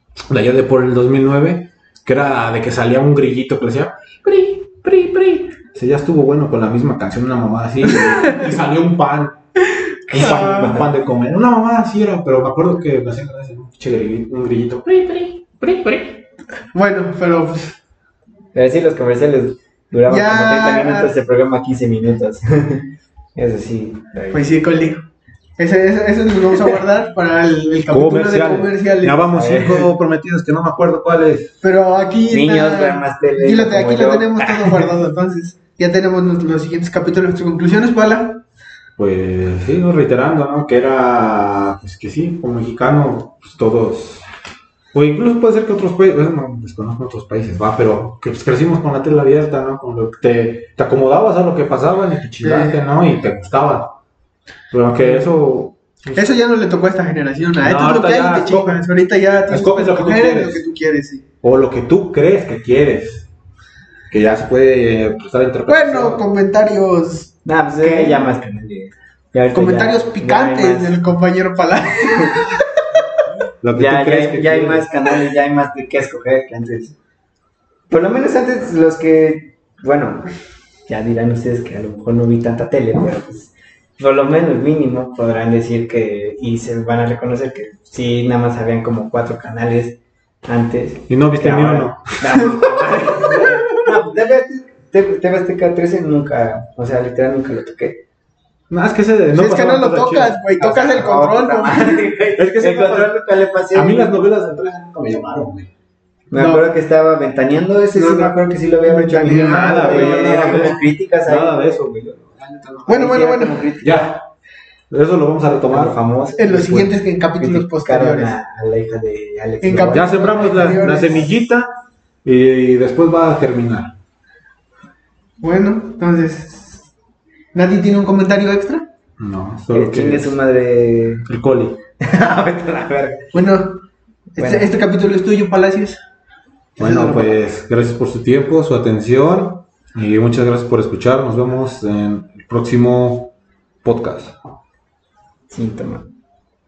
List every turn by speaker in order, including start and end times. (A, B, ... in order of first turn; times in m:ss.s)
0:00.3-0:09.4 A
0:08.0-0:08.4 B
0:10.1-0:10.9 B
0:10.1-0:16.2 A
0:16.7-0:17.7 B
0:18.5-0:24.5 C
0:20.1-0:21.1 B
0:24.3-0:25.0 B
0:25.6-0:29.3 B
0:27.9-0:31.5 A
0:29.3-0:29.9 C
0:31.6-0:38.4 B
0:32.3-0:34.8 C
0:39.0-0:44.2 A
0:44.9-0:53.9 A
0:52.4-0:52.8 B
0:54.7-0:56.2 A
0:56.1-1:01.2 B
0:57.6-0:58.8 A
0:59.5-1:00.6 A
1:01.4-1:03.3 A
1:04.1-1:06.2 A
1:05.7-1:08.3 B
1:07.4-1:11.0 C
1:09.5-1:12.6 B
1:13.6-1:14.9 A
1:13.7-1:17.0 C
1:17.9-1:20.2 C
1:20.9-1:38.0 C
1:31.1-1:32.4 A
1:33.2-1:33.9 B
1:38.7-1:40.4 A
1:39.3-1:42.0 B
1:40.6-1:44.1 C
1:42.3-1:45.7 A
1:46.3-1:52.1 C
1:46.3-1:46.7 B
1:47.9-1:50.8 B
1:49.4-1:53.0 A
1:52.8-1:54.2 C
1:52.9-1:53.7 B
1:53.8-1:54.2 A
1:54.9-1:56.0 A
1:55.7-2:01.0 C
1:56.4-1:58.4 B
1:59.6-2:01.3 B
1:59.8-2:01.7 A
2:02.2-2:03.9 A
2:05.4-2:06.8 B
2:07.5-2:08.8 B
2:09.2-2:10.4 A
2:09.7-2:11.2 C
2:11.3-2:11.8 A
2:12.0-2:13.2 C
2:13.3-2:13.8 B
2:14.4-2:16.0 B
2:14.4-2:14.7 C
2:16.8-2:17.4 B
2:16.8-2:23.3 A
2:23.8-2:24.4 A
2:25.5-2:26.1 C